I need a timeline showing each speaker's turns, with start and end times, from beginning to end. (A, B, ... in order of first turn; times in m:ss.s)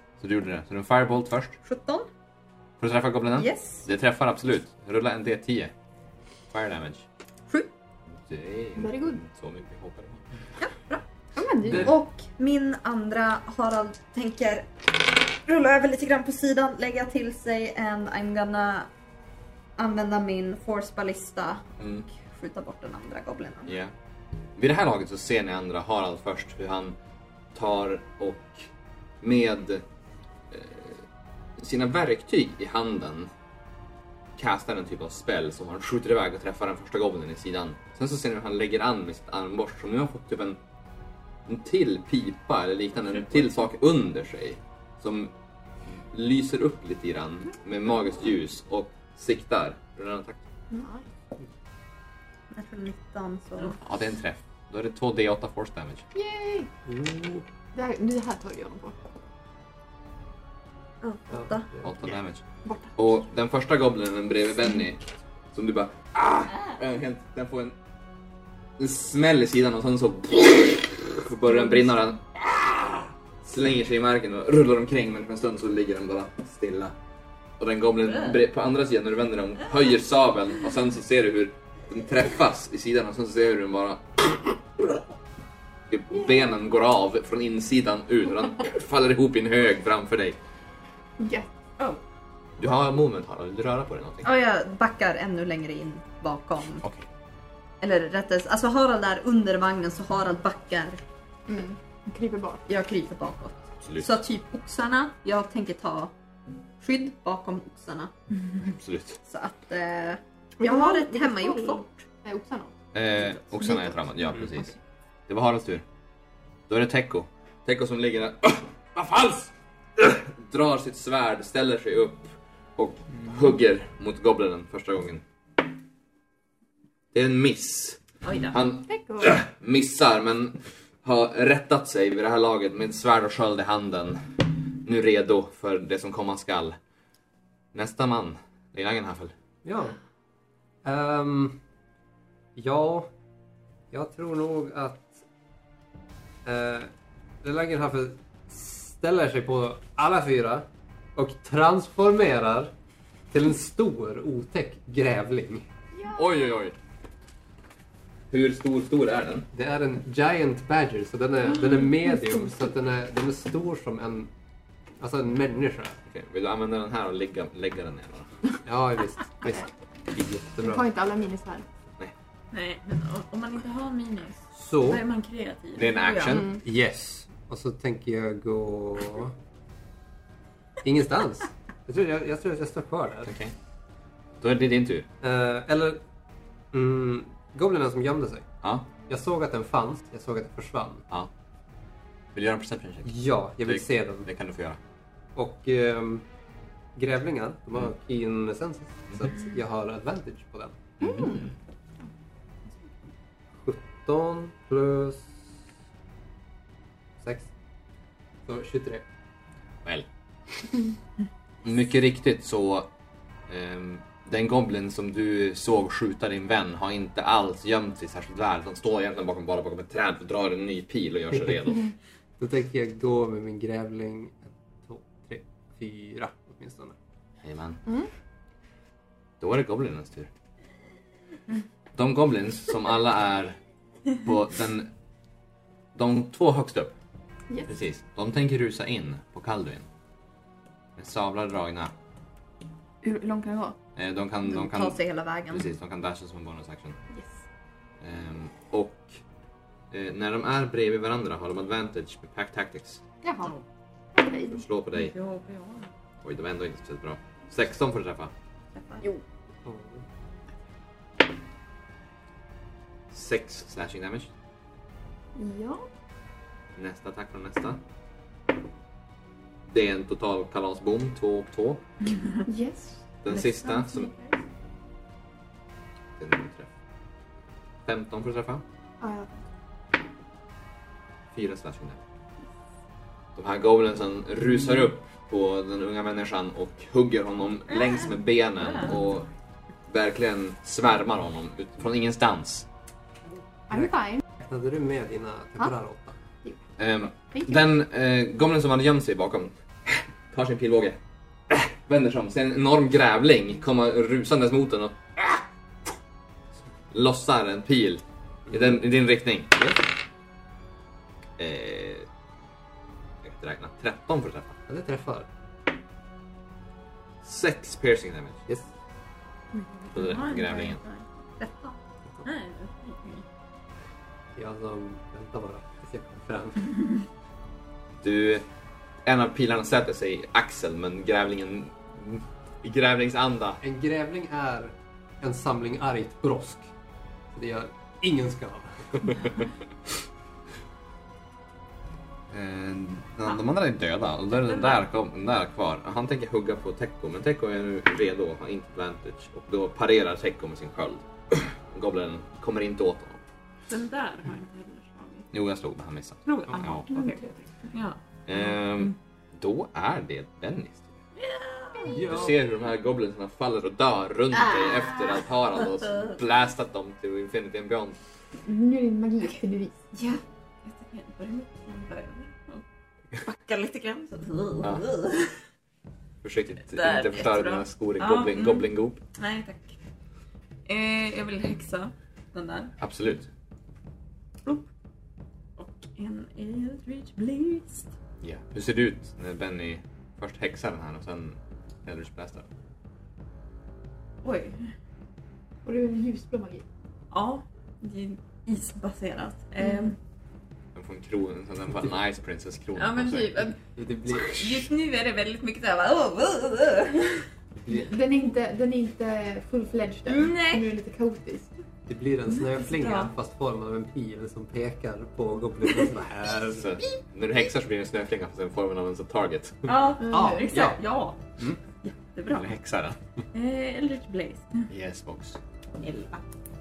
0:00.2-0:01.6 A
0:01.6-0:02.1 B
0:02.8-0:05.7 A
0:03.4-0:03.9 B
0:06.5-0:07.0 A
0:08.1-0:10.2 A
0:08.8-0:09.2 C
0:10.6-0:11.0 B
0:11.4-0:11.9 C
0:11.6-0:11.9 A
0:11.7-0:18.9 B
0:19.8-0:23.8 B
0:21.8-0:22.0 A
0:23.7-0:23.9 A
0:24.6-0:27.0 A
0:27.5-0:28.7 A
0:29.2-0:29.8 A
0:30.5-0:31.0 A
0:31.6-0:33.3 A
0:34.4-0:40.6 A
0:41.4-0:45.3 A
0:45.8-0:50.4 A
0:50.7-0:51.1 C
0:52.5-0:53.8 B
0:53.8-0:56.0 A
0:56.1-0:56.7 C
0:56.8-0:57.4 D
0:57.7-0:59.0 C
1:01.0-1:01.7 B
1:01.3-1:01.9 D
1:01.8-1:02.4 A
1:02.6-1:03.0 C
1:03.0-1:07.8 A
1:08.8-1:17.0 A
1:17.6-1:24.9 A
1:25.9-1:30.4 A
1:31.2-1:31.5 C
1:32.6-1:34.3 A
1:34.2-1:36.8 B
1:37.8-1:41.0 B
1:41.5-1:42.6 C
1:42.7-1:46.1 B
1:43.8-1:44.2 A
1:46.8-1:48.1 B
1:48.6-1:49.2 A
1:49.2-1:52.0 B
1:50.6-1:52.8 C
1:52.9-1:54.7 A
1:53.5-1:53.9 C
1:55.3-1:55.8 A
1:56.7-2:05.2 A
2:07.1-2:14.2 A
2:08.2-2:08.6 E
2:08.8-2:09.4 C
2:14.8-2:16.8 A
2:17.7-2:19.3 A
2:19.6-2:20.0 D
2:20.8-2:21.6 D
2:22.6-2:23.1 D
2:23.9-2:25.2 D
2:26.4-2:26.9 D
2:27.4-2:32.7 D
2:33.3-2:35.6 D
2:36.1-2:36.8 A
2:38.3-2:39.5 A
2:39.5-2:44.3 D
2:45.0-2:46.0 D
2:46.1-2:48.3 A
2:48.6-2:50.9 D
2:50.6-2:51.6 C
2:52.5-2:56.5 E
2:54.5-2:55.0 D
2:55.7-2:56.5 A
2:56.2-2:56.6 C
2:56.6-2:59.3 D
3:00.8-3:03.3 D
3:03.2-3:03.5 A
3:04.4-3:05.1 A
3:05.2-3:06.0 D
3:06.7-3:08.5 D
3:08.6-3:08.9 A
3:09.1-3:11.0 D
3:12.3-3:14.8 A
3:13.0-3:14.3 D
3:15.4-3:16.2 D
3:17.0-3:20.8 D
3:21.0-3:21.5 A
3:21.0-3:21.5 C
3:23.6-3:25.5 D
3:27.2-3:27.5 D
3:28.4-3:29.0 D
3:31.6-3:32.9 A
3:33.5-3:41.9 A
3:42.4-3:47.0 D
3:47.4-3:47.8 A
3:49.4-3:50.3 A
3:51.9-3:53.6 A
3:54.2-3:54.9 A
3:55.9-3:56.9 A
3:57.6-3:59.8 A
4:01.0-4:01.9 A
4:03.0-4:03.8 C
4:04.0-4:05.0 A
4:04.4-4:05.7 B
4:05.5-4:07.0 A
4:07.1-4:07.4 C
4:08.0-4:09.2 A
4:09.9-4:13.0 A
4:13.2-4:13.5 C
4:14.1-4:14.6 C
4:14.5-4:15.1 A
4:14.9-4:15.9 E
4:16.2-4:18.3 A
4:18.7-4:19.0 B
4:19.6-4:20.0 D
4:23.1-4:24.3 A
4:25.4-4:25.9 C
4:26.8-4:27.8 A
4:29.7-4:31.8 A
4:32.4-4:33.1 C
4:33.2-4:34.1 A
4:33.3-4:34.3 E
4:36.2-4:36.7 A
4:37.8-4:38.6 A
4:39.0-4:39.3 C
4:41.3-4:42.0 A
4:43.4-4:49.3 A
4:47.7-4:48.1 E
4:48.6-4:48.9 E
4:49.9-4:52.7 A
4:53.7-4:54.2 C
4:53.7-4:56.2 D
4:56.8-5:05.4 A
4:57.3-4:57.6 C
5:06.9-5:09.8 A
5:11.4-5:12.1 A
5:13.2-5:14.6 A
5:14.7-5:15.3 D
5:17.2-5:18.4 A
5:19.9-5:21.0 E
5:19.9-5:20.8 A
5:21.4-5:21.8 B
5:22.2-5:23.2 E
5:24.4-5:26.8 D
5:28.0-5:28.4 A
5:29.0-5:33.6 A
5:33.6-5:36.7 D
5:37.3-5:39.3 D
5:42.3-5:53.2 A
5:44.4-5:44.8 E
5:53.7-5:55.3 E
5:55.3-5:56.9 A
5:56.2-5:58.9 E
5:56.9-5:57.2 C
5:58.2-6:01.0 A
6:01.2-6:02.0 E
6:01.8-6:02.4 D
6:01.9-6:08.0 A
6:08.4-6:09.8 C
6:09.9-6:12.6 E
6:13.1-6:15.4 E
6:14.6-6:14.9 A
6:16.2-6:19.0 A
6:16.7-6:19.8 E
6:20.6-6:22.7 E
6:22.8-6:23.3 A
6:25.6-6:27.9 E
6:28.2-6:32.5 A
6:34.2-6:34.6 E
6:35.6-6:36.6 C
6:37.1-6:40.0 E
6:40.7-6:43.4 A
6:42.8-6:47.2 E
6:43.7-6:44.7 D
6:47.6-6:47.9 D
6:47.7-6:51.5 C
6:50.0-6:50.7 E
6:51.9-6:56.7 D
6:52.4-6:53.1 E
6:56.5-6:59.8 A
6:59.6-7:01.2 E
7:00.0-7:00.4 C
7:00.1-7:00.8 D
7:01.8-7:02.5 E
7:02.3-7:03.0 A
7:03.3-7:04.7 E
7:04.7-7:05.4 A
7:05.8-7:06.2 E